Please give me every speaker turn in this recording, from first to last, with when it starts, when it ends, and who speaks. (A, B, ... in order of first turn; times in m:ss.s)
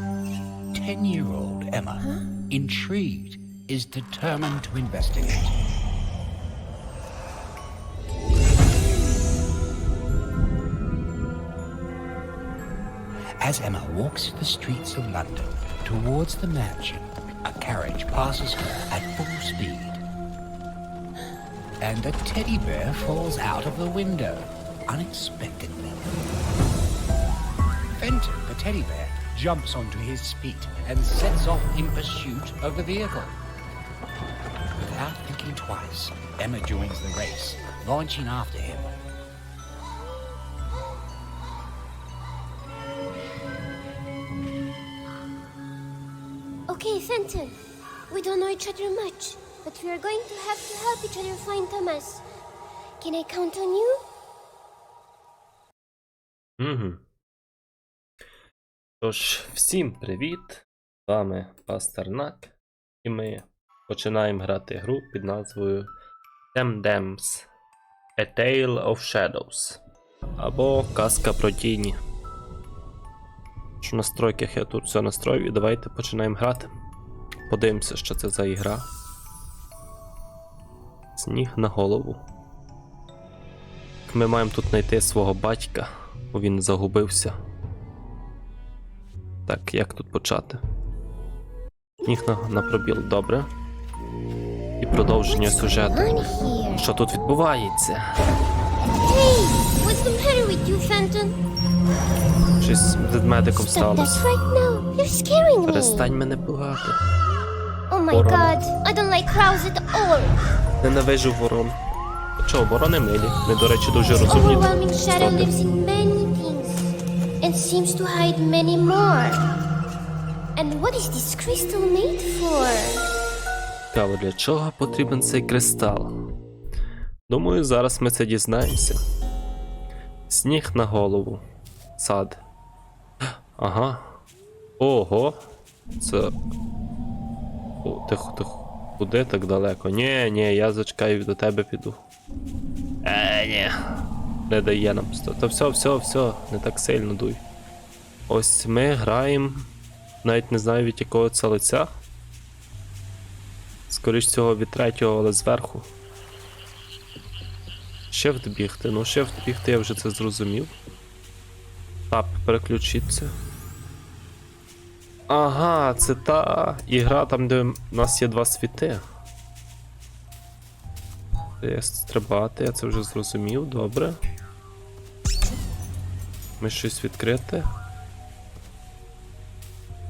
0:00.7-0:05.5 A
0:13.4-0:20.0 A
0:21.8-0:26.1 A
0:27.9-0:33.4 A
0:34.8-0:38.9 A
0:46.7-0:52.2 B
0:53.0-0:54.0 B
0:56.6-0:57.0 C
0:59.0-1:05.9 C
1:06.5-1:07.5 C
1:08.2-1:09.8 C
1:10.4-1:12.0 C
1:13.8-1:16.7 C
1:17.5-1:18.9 C
1:21.2-1:22.2 C
1:24.1-1:27.3 C
1:29.5-1:30.6 C
1:32.0-1:33.4 C
1:34.8-1:38.0 C
1:35.2-1:36.9 B
1:39.0-1:41.4 B
1:42.6-1:44.3 C
1:43.5-1:46.1 B
1:45.6-1:47.0 C
1:47.9-1:50.4 B
1:48.1-1:48.6 C
1:50.8-1:51.8 C
1:52.4-1:55.6 C
1:54.2-1:59.5 B
2:00.6-2:03.1 B
2:03.9-2:06.1 C
2:07.3-2:09.0 C
2:10.3-2:11.4 C
2:12.0-2:12.4 C
2:13.6-2:14.2 C
2:14.8-2:15.4 C
2:16.0-2:16.3 C
2:17.8-2:22.0 C
2:23.0-2:23.7 C
2:24.5-2:27.4 C
2:28.3-2:29.7 C
2:30.2-2:31.9 C
2:33.9-2:35.8 C
2:38.1-2:40.7 C
2:42.1-2:43.3 C
2:45.3-2:49.0 C
2:51.6-2:54.2 C
2:56.6-2:57.6 C